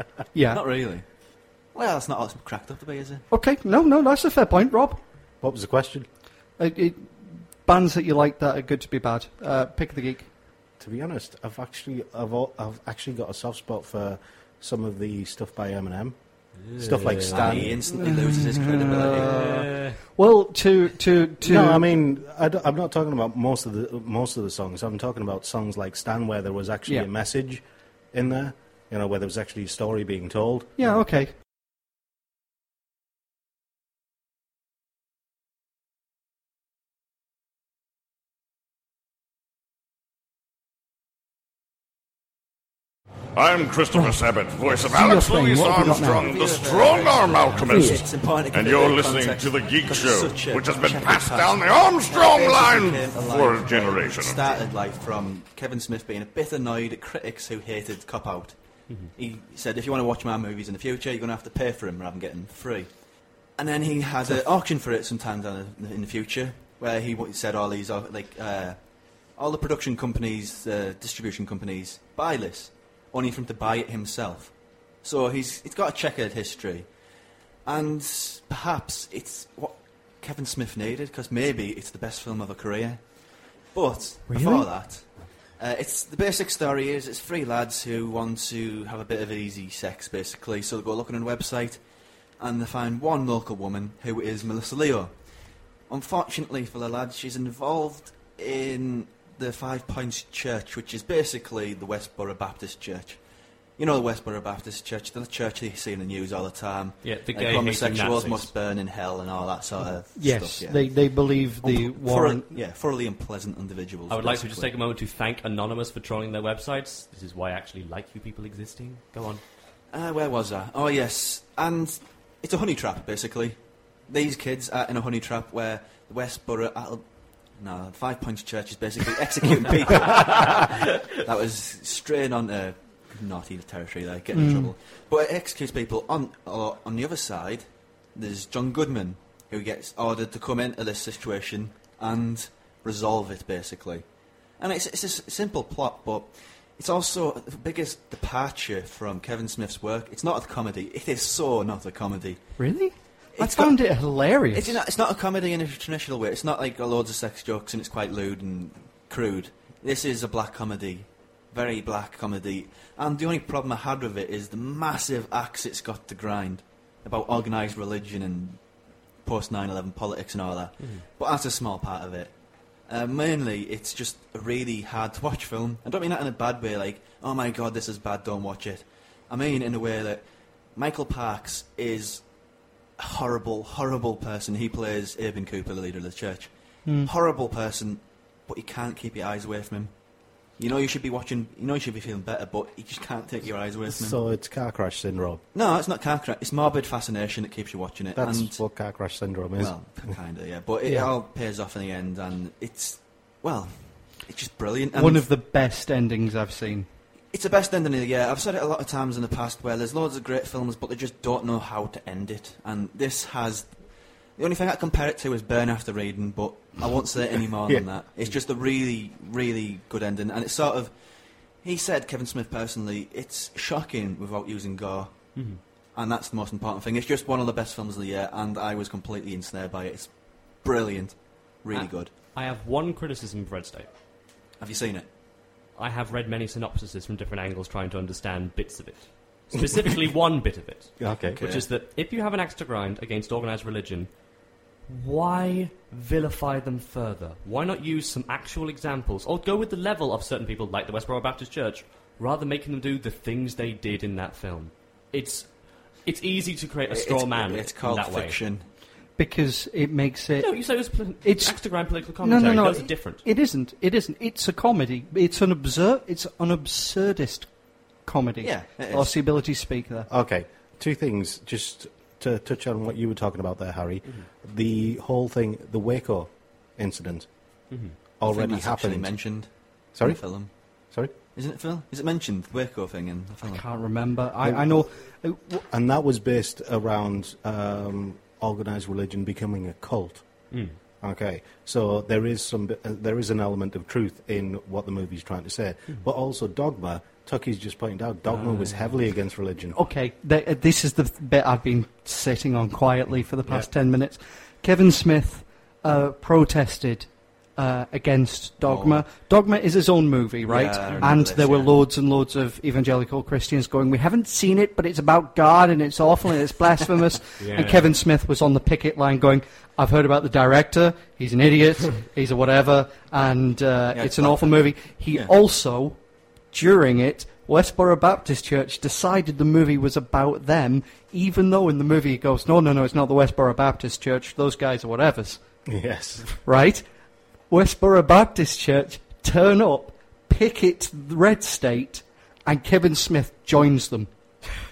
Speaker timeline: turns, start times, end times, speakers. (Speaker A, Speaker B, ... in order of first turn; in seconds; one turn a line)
Speaker A: 0.3-0.6
Speaker B: 0.5-1.1
Speaker B: 1.7-3.2
Speaker A: 3.3-5.0
Speaker C: 5.4-6.1
Speaker A: 6.6-10.3
Speaker C: 10.8-16.1
Speaker D: 16.6-17.7
Speaker C: 16.7-17.8
Speaker B: 17.3-19.4
Speaker A: 17.8-21.9
Speaker D: 19.2-20.0
Speaker C: 21.4-31.0
Speaker A: 30.8-31.3
Speaker E: 43.3-54.4
Speaker A: 43.9-44.2
Speaker A: 44.9-46.3
Speaker B: 46.2-62.9
Speaker B: 63.5-68.8
Speaker B: 69.3-76.9
Speaker B: 77.6-83.0
Speaker B: 83.7-85.0
Speaker A: 84.3-84.7
Speaker B: 85.6-91.8
Speaker B: 92.4-95.1
Speaker B: 95.9-103.2
Speaker B: 103.8-110.9
Speaker D: 107.0-108.5
Speaker A: 110.2-112.5
Speaker B: 111.6-114.7
Speaker D: 114.1-119.4
Speaker B: 119.9-123.5
Speaker B: 124.1-127.0
Speaker B: 127.6-144.0
Speaker A: 134.3-134.7
Speaker B: 144.6-152.4
Speaker A: 152.6-154.8
Speaker B: 153.3-154.0
Speaker B: 154.5-168.6
Speaker B: 169.2-172.3
Speaker D: 170.8-171.0
Speaker B: 172.9-182.2
Speaker B: 183.0-186.5
Speaker B: 187.0-189.9
Speaker B: 190.6-194.2
Speaker C: 193.9-195.4
Speaker B: 195.5-198.6
Speaker C: 198.1-200.1
Speaker B: 199.6-205.3
Speaker A: 200.8-201.1
Speaker A: 204.9-206.9
Speaker B: 207.3-213.8
Speaker B: 214.3-220.9
Speaker B: 221.6-232.1
Speaker D: 225.3-225.6
Speaker D: 231.7-233.9
Speaker B: 234.6-235.1
Speaker D: 235.8-244.1
Speaker C: 241.0-241.4
Speaker B: 241.3-241.6
Speaker D: 244.9-258.4
Speaker B: 256.9-258.6
Speaker A: 259.2-261.6
Speaker D: 260.4-263.2
Speaker A: 262.2-267.5
Speaker A: 268.0-270.1
Speaker B: 268.4-269.1
Speaker C: 270.1-277.3
Speaker D: 277.7-277.9
Speaker C: 278.2-279.4
Speaker B: 278.2-280.5
Speaker C: 279.9-281.1
Speaker B: 281.3-283.6
Speaker A: 283.5-285.6
Speaker C: 284.4-284.9
Speaker C: 285.7-290.2
Speaker D: 290.5-290.8
Speaker C: 291.0-299.8
Speaker D: 298.3-298.9
Speaker A: 299.7-326.0
Speaker B: 308.6-309.0
Speaker B: 310.4-311.7
Speaker D: 317.4-317.9
Speaker B: 323.9-325.3
Speaker A: 326.5-335.4
Speaker C: 335.7-336.3
Speaker A: 336.4-336.8
Speaker A: 337.5-344.1